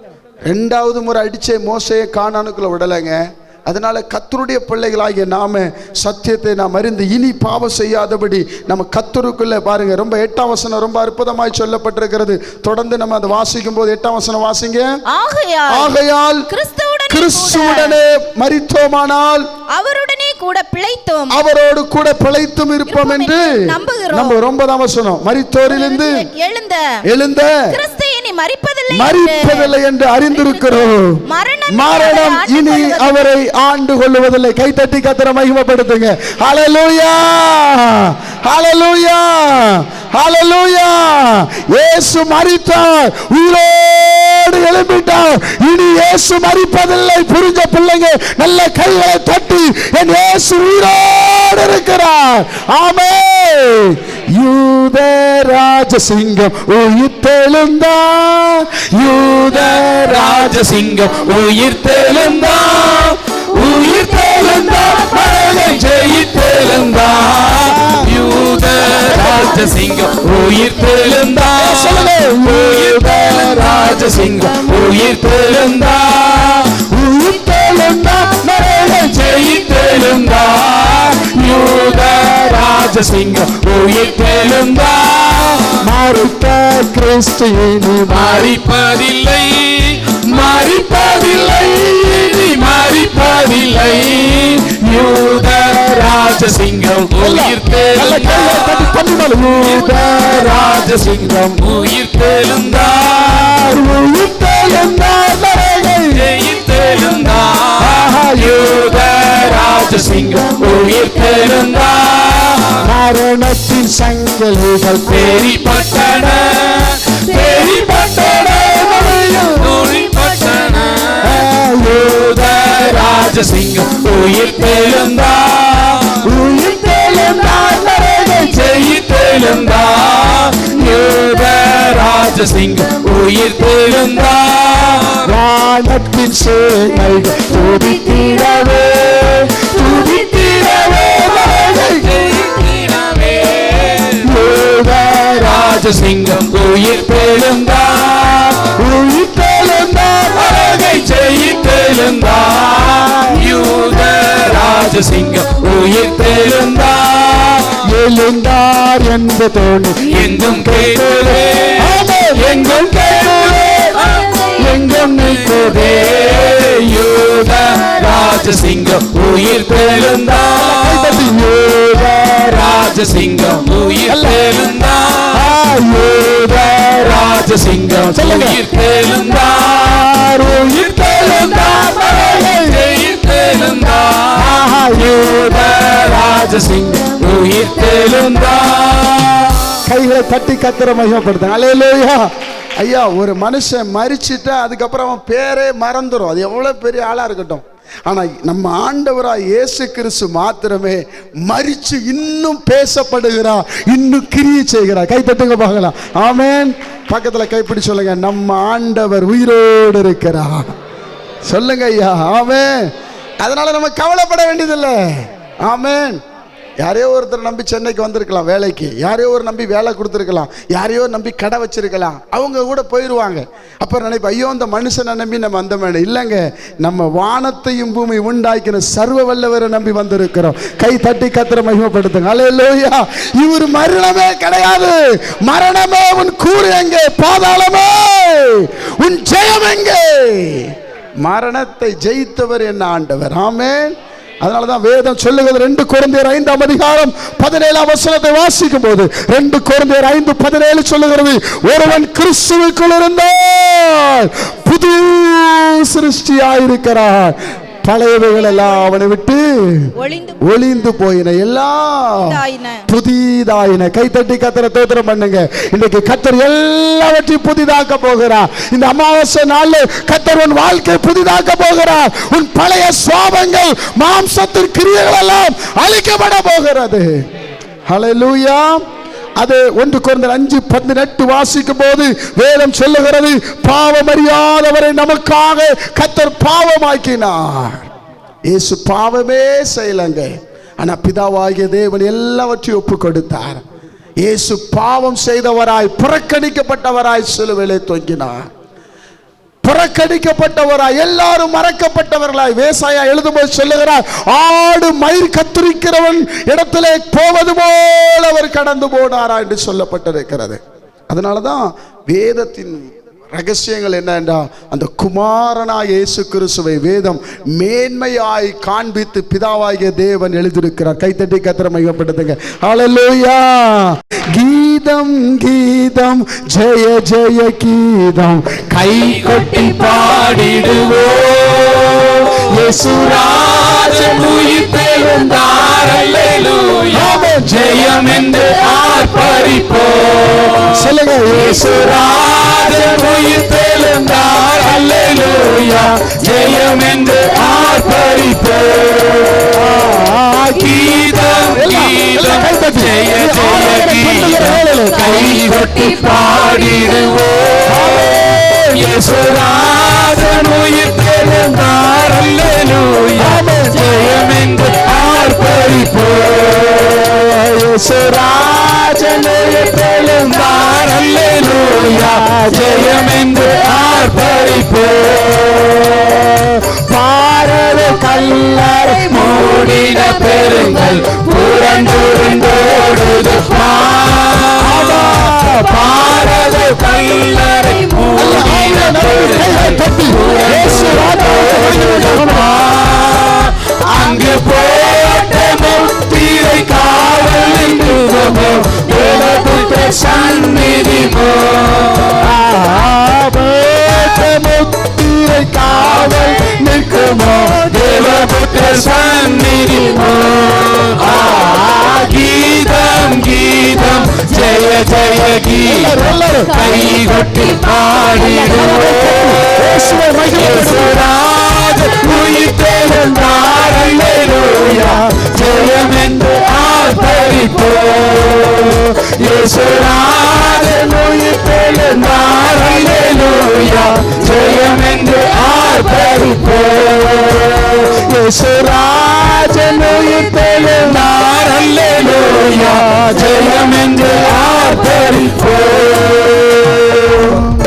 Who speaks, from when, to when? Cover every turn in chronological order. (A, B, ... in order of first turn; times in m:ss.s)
0:00.5-0:14.9 A
0:15.1-0:15.9 B
0:15.7-0:16.5 A
0:16.5-0:18.0 B
0:17.1-0:19.5 A
0:19.7-0:21.4 B
0:21.3-0:26.3 A
0:22.9-0:24.4 B
0:25.7-0:27.0 B
0:27.1-0:27.7 A
0:27.7-0:29.7 B
0:28.9-0:31.2 A
0:30.3-0:33.2 B
0:31.7-1:00.5 A
0:59.0-1:16.9 C
1:07.6-1:08.1 A
1:09.0-1:09.6 A
1:11.5-1:13.8 A
1:16.9-1:19.2 A
1:18.7-1:25.8 C
1:25.8-1:28.4 A
1:28.1-1:38.9 C
1:37.2-1:41.6 A
1:39.6-1:43.8 C
1:43.3-1:46.2 A
1:46.1-1:52.9 C
1:47.8-1:48.7 A
1:52.8-1:55.4 A
1:55.1-2:01.5 C
1:58.0-1:59.6 A
2:01.2-2:02.4 A
2:02.1-2:06.4 C
2:06.1-2:08.6 A
2:08.1-2:15.3 C
2:15.2-2:22.1 A
2:19.9-2:24.3 C
2:24.2-2:25.7 A
2:25.3-2:28.8 C
2:28.8-2:30.7 A
2:30.4-2:37.8 C
2:37.8-2:40.1 A
2:40.0-2:51.2 C
2:40.7-2:46.0 A
2:50.6-2:52.7 A
2:52.3-2:55.5 C
2:54.1-2:54.4 A
2:55.3-2:57.1 A
2:56.8-3:09.8 C
2:58.1-2:58.6 A
2:59.9-3:02.8 A
3:04.4-3:05.9 A
3:09.9-3:30.8 A
3:31.5-3:32.9 A
3:33.4-3:36.2 A
3:36.8-4:19.9 A
4:20.0-4:20.5 B
4:20.4-4:22.3 A
4:22.2-4:22.9 B
4:22.9-4:37.1 A
4:37.9-4:38.8 A
4:39.4-4:47.9 A
4:48.5-4:53.6 A
4:54.2-4:58.4 A
4:59.6-5:29.6 A
5:28.8-5:49.9 C
5:32.5-5:33.3 A
5:36.9-5:37.6 A
5:40.7-5:41.8 A
5:49.5-5:50.7 A
5:50.5-6:07.1 C
5:51.5-5:55.2 A
5:57.7-5:59.0 A
6:03.2-6:04.1 A
6:04.9-6:05.7 A
6:06.6-6:10.4 A
6:08.8-6:16.2 C
6:12.1-6:12.6 A
6:15.9-6:19.1 A
6:18.8-6:42.3 C
6:24.6-6:25.8 A
6:28.2-6:32.7 A
6:39.0-6:39.6 A
6:42.2-6:48.9 A
6:46.0-6:46.3 C
6:47.2-7:17.9 C
6:51.0-6:52.1 A
6:55.7-6:56.6 A
6:58.3-7:01.1 A
7:04.4-7:05.0 A
7:10.6-7:14.2 A
7:17.8-7:21.1 A
7:20.5-7:27.4 C
7:22.6-7:23.2 A
7:24.3-7:25.3 A
7:27.2-7:27.4 A